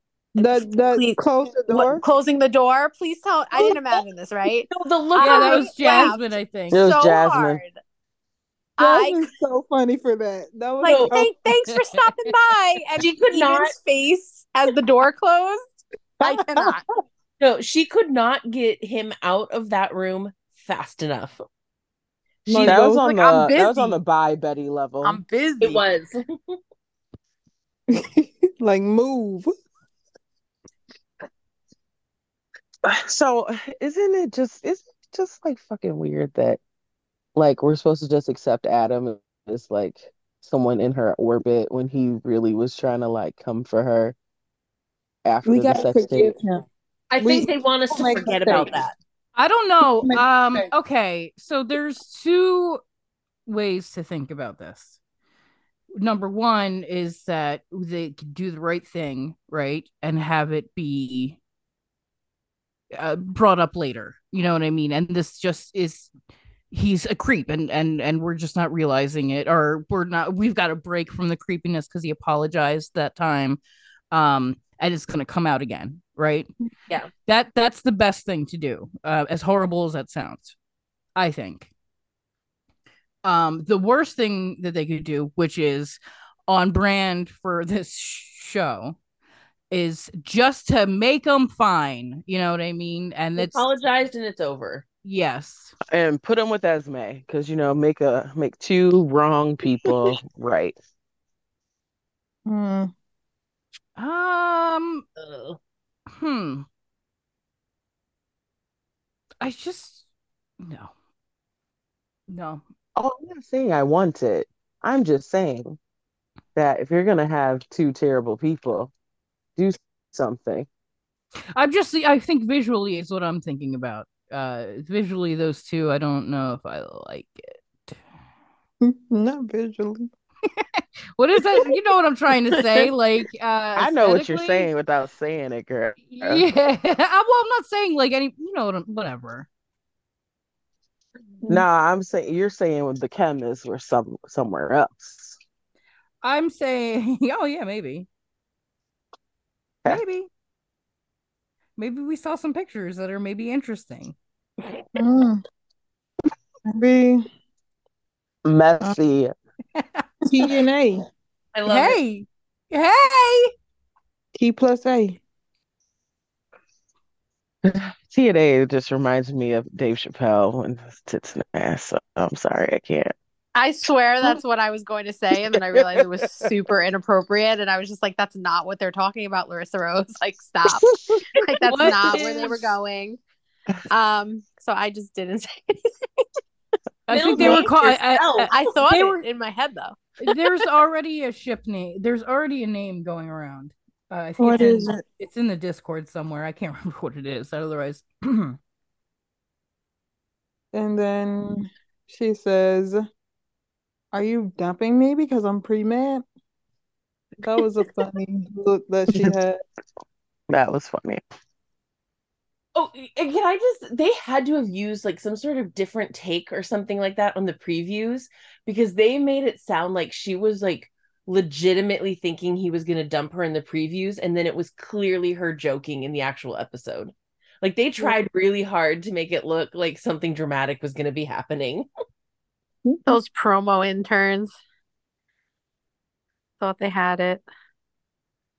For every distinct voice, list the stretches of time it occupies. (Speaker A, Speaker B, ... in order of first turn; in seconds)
Speaker A: 0.3-2.0, 8.8-11.3, 16.2-16.8, 22.4-23.0, 27.9-29.5, 45.5-46.6, 47.2-48.9, 49.9-50.7, 102.5-102.9, 128.8-130.1, 154.9-155.4, 156.7-157.3, 160.3-161.0, 164.3-165.2, 194.4-195.0, 200.7-203.0, 204.1-206.2, 207.4-209.6, 232.8-233.2
Speaker B: 0.4-1.2, 1.7-7.7, 8.8-9.3, 10.8-16.8, 22.5-23.9, 25.0-25.8, 173.5-183.2, 183.9-186.2, 188.5-190.0, 233.1-234.5, 236.6-237.4
Speaker C: 4.7-5.7, 10.8-11.1, 13.0-13.7, 17.4-21.4, 25.6-26.6, 47.1-48.9, 93.4-94.8, 105.2-105.6, 161.5-162.0, 181.7-182.7, 187.1-188.7, 212.7-231.8
Speaker D: 5.2-6.8, 11.7-12.1, 49.4-52.8, 53.5-55.0, 56.0-61.4, 62.9-66.1, 66.7-73.6, 74.1-76.5, 77.2-80.5, 81.2-81.7, 83.2-89.0, 89.7-93.6, 95.0-95.7, 104.0-105.0, 106.1-106.7, 109.4-110.0, 110.6-110.9, 112.3-112.6, 121.5-127.9, 130.5-134.7, 136.1-139.5, 146.2-148.1, 149.8-150.3, 151.8-154.2, 161.7-163.5, 181.7-181.9, 187.1-189.2, 190.2-198.6
Speaker E: 6.7-7.6, 22.6-25.2, 32.8-36.6, 37.3-44.1, 45.2-46.3, 95.9-100.8, 113.0-115.8, 116.5-118.9, 119.5-120.7, 133.8-136.4, 141.5-145.4, 158.4-159.3, 167.6-173.1, 175.5-176.4, 180.9-181.2, 210.5-211.2